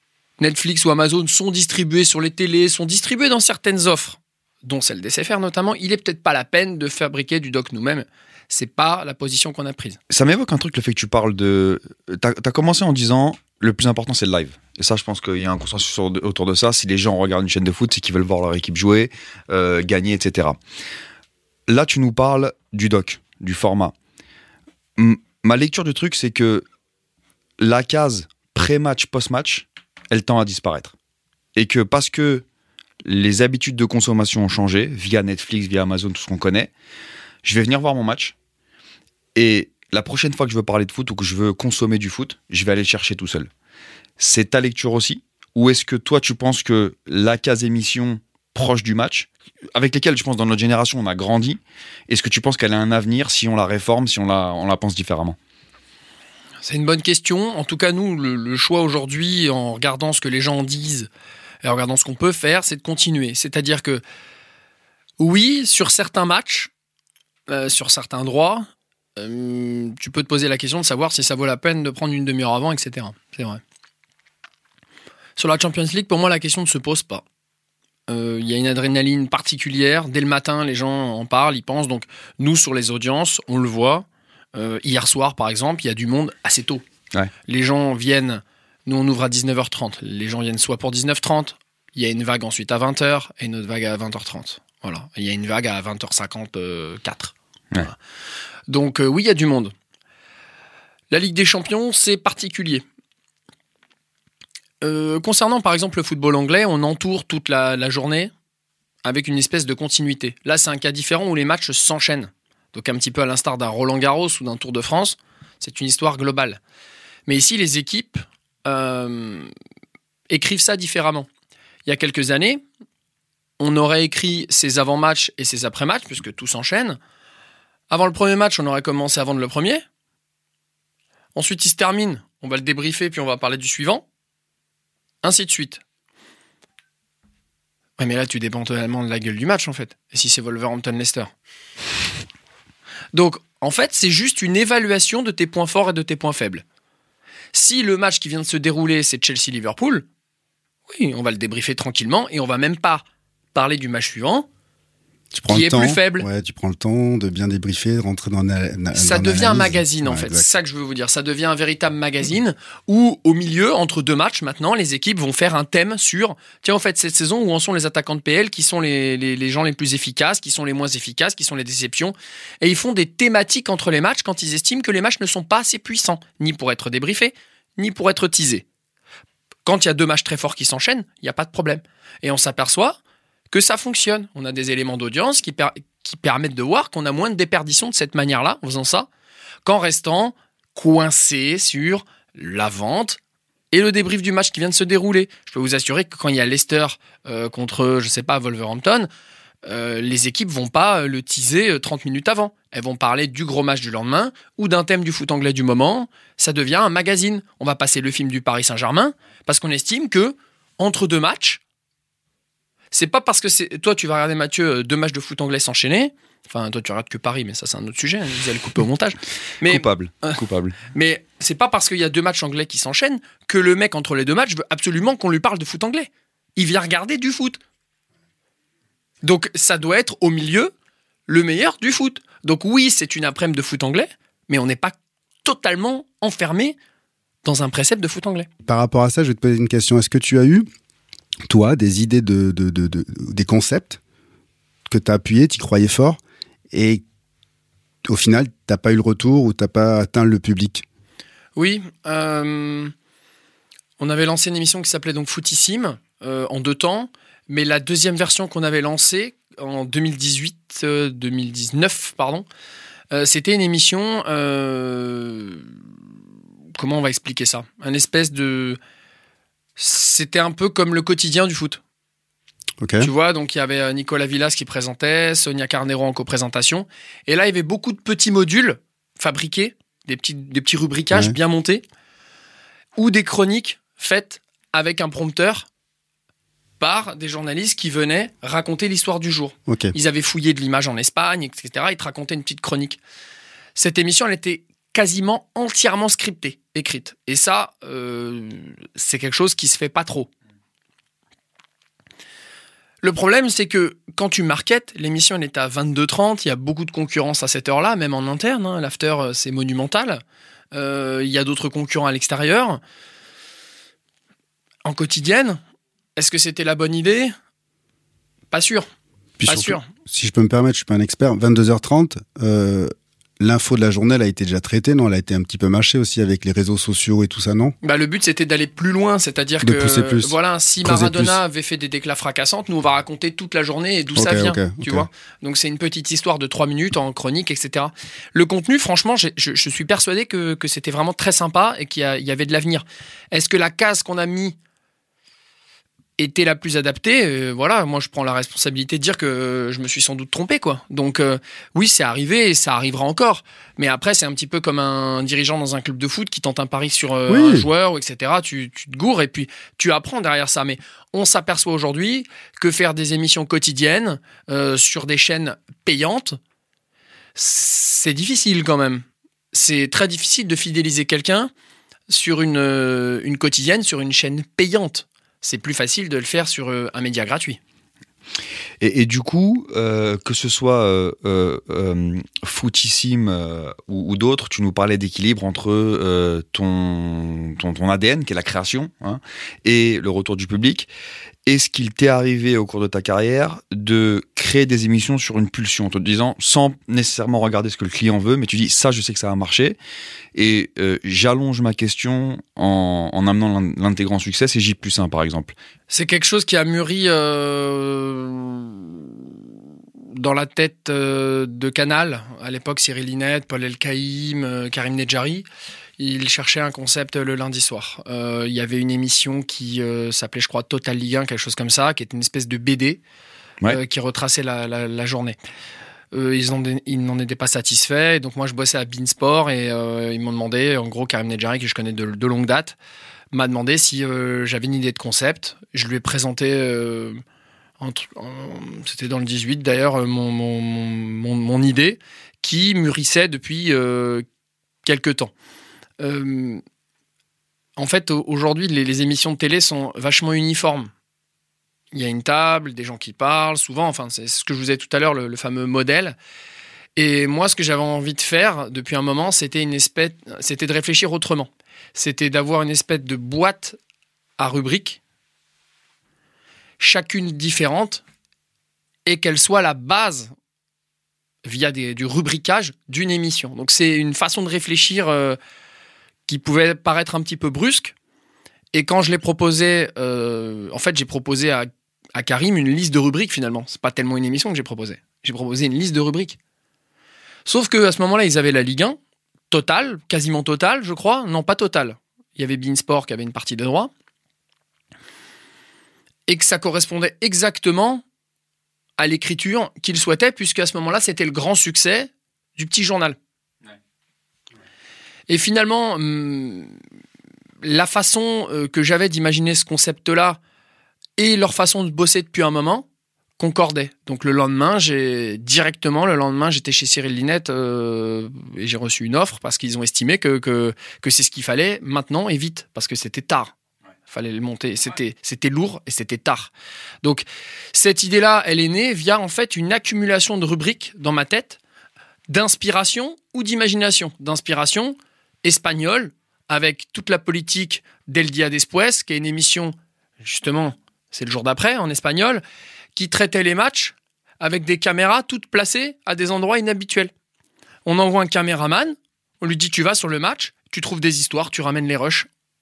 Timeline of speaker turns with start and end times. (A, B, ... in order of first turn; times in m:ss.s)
0:00.4-0:10.0 A
0:10.1-0:20.6 B
0:21.7-0:24.0 B
0:25.0-0:26.7 B
0:27.6-0:30.9 B
0:31.6-0:32.4 B
0:33.0-0:36.7 B
0:37.4-0:38.4 B
0:39.4-0:43.5 B
0:44.2-0:55.4 B
0:56.6-1:01.1 A
1:01.6-1:04.0 A
1:05.2-1:06.7 A
1:07.5-1:13.6 A
1:15.4-1:17.2 A
1:18.1-1:26.8 A
1:27.5-1:38.0 A
1:38.7-1:39.7 A
1:41.1-1:42.8 A
1:44.8-1:48.3 A
1:49.0-1:56.6 A
1:57.3-1:59.5 A
2:00.3-2:01.3 A
2:01.9-2:02.6 A
2:03.6-2:07.0 A
2:07.9-2:09.8 A
2:11.4-2:14.0 A
2:15.2-2:15.8 A
2:18.0-2:21.3 A
2:23.1-2:26.6 A
2:27.5-2:30.1 A
2:30.9-2:34.5 A
2:35.3-2:40.5 C
2:35.5-2:36.3 A
2:39.0-2:58.6 A
2:59.7-3:03.0 A
3:03.5-3:09.1 A
3:09.6-3:13.2 A
3:13.7-3:19.1 A
3:19.7-3:31.6 A
3:32.9-3:47.6 A
3:39.6-3:40.8 B
3:49.2-3:50.7 A
3:51.3-3:56.8 A
3:57.4-3:58.5 A
3:58.7-4:00.7 C
4:01.5-4:04.0 C
4:04.9-4:06.2 C
4:06.7-4:07.0 C
4:08.1-4:10.8 C
4:11.6-4:12.9 A
4:14.0-4:22.5 A
4:23.1-4:25.7 A
4:26.8-4:28.8 A
4:29.8-4:31.8 A
4:32.8-4:33.1 C
4:33.0-4:41.8 A
4:43.0-4:45.7 A
4:46.8-4:53.0 A
4:49.7-4:49.9 C
4:53.8-5:00.3 A
5:03.0-5:10.2 A
5:10.7-5:12.8 A
5:14.8-5:15.6 A
5:16.2-5:17.3 A
5:18.5-5:18.9 A
5:19.4-5:27.8 C
5:19.4-5:19.9 A
5:27.8-5:44.6 A
5:29.6-5:31.4 C
5:34.2-5:35.1 C
5:46.2-6:06.4 A
5:57.3-5:57.7 C
6:07.4-6:11.5 A
6:12.1-6:17.6 A
6:18.8-6:30.9 B
6:31.5-6:39.8 B
6:40.4-6:45.6 B
6:45.9-6:49.1 A
6:50.2-6:55.5 A
6:56.0-7:03.0 A
7:03.7-7:05.4 A
7:06.1-7:12.8 A
7:13.3-7:17.2 A
7:17.8-7:24.2 A
7:24.8-7:25.3 A
7:26.0-7:26.6 A
7:27.8-7:30.9 A
7:31.9-7:36.2 A
7:37.0-7:43.8 A
7:44.4-7:45.0 A
7:46.8-7:48.0 A
7:49.1-7:50.3 A
7:51.4-7:55.4 A
7:56.3-7:57.9 A
7:58.7-8:06.4 A
8:07.5-8:09.0 A
8:09.5-8:13.9 A
8:16.3-8:18.0 A
8:19.0-8:23.2 A
8:25.3-8:26.7 A
8:27.6-8:30.4 A
8:31.2-8:32.9 A
8:33.4-8:43.5 A
8:44.1-8:46.5 A
8:47.0-8:51.6 A
8:52.3-9:02.4 A
9:03.0-9:07.1 A
9:07.9-9:12.3 A